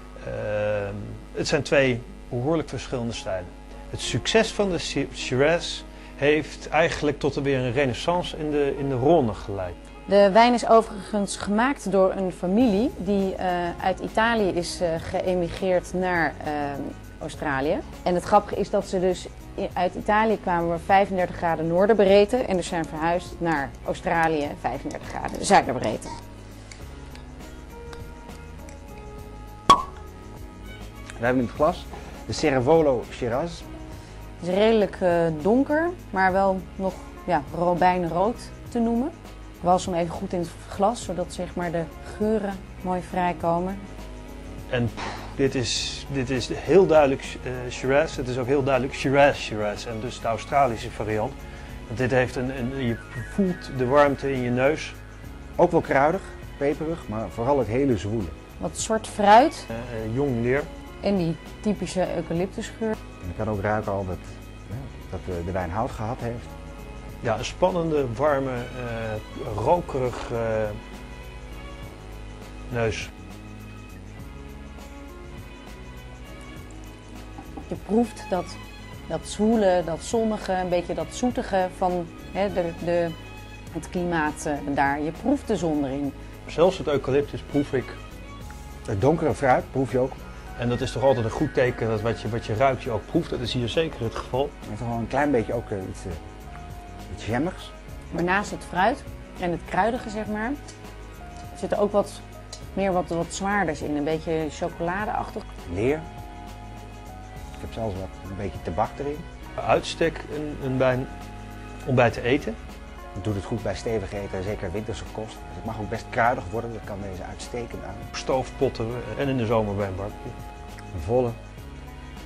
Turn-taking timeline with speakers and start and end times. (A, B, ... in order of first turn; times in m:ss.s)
0:00.2-0:09.7 A
0:10.1-0:26.2 B
0:31.2-0:33.6 C
0:34.4-0:43.8 B
0:44.7-0:51.3 A
0:51.9-0:55.0 A
0:55.6-0:58.3 C
0:58.6-0:59.7 B
0:59.7-1:00.7 A
1:01.0-1:02.9 B
1:03.2-1:06.5 C
1:07.2-1:10.8 A
1:12.7-1:13.1 A
1:17.7-1:23.1 B
1:23.7-1:26.1 B
1:26.5-1:28.0 A
1:28.9-1:30.2 C
1:30.6-1:34.5 A
1:34.6-1:36.2 C
1:37.1-1:37.7 C
1:38.1-1:40.6 B
1:41.5-1:42.2 B
1:42.7-1:45.4 B
1:45.6-1:46.1 C
1:47.6-1:49.2 C
1:49.6-1:51.1 A
1:51.8-1:52.6 A
1:53.1-1:58.0 C
1:58.1-2:00.4 A
2:00.9-2:01.4 C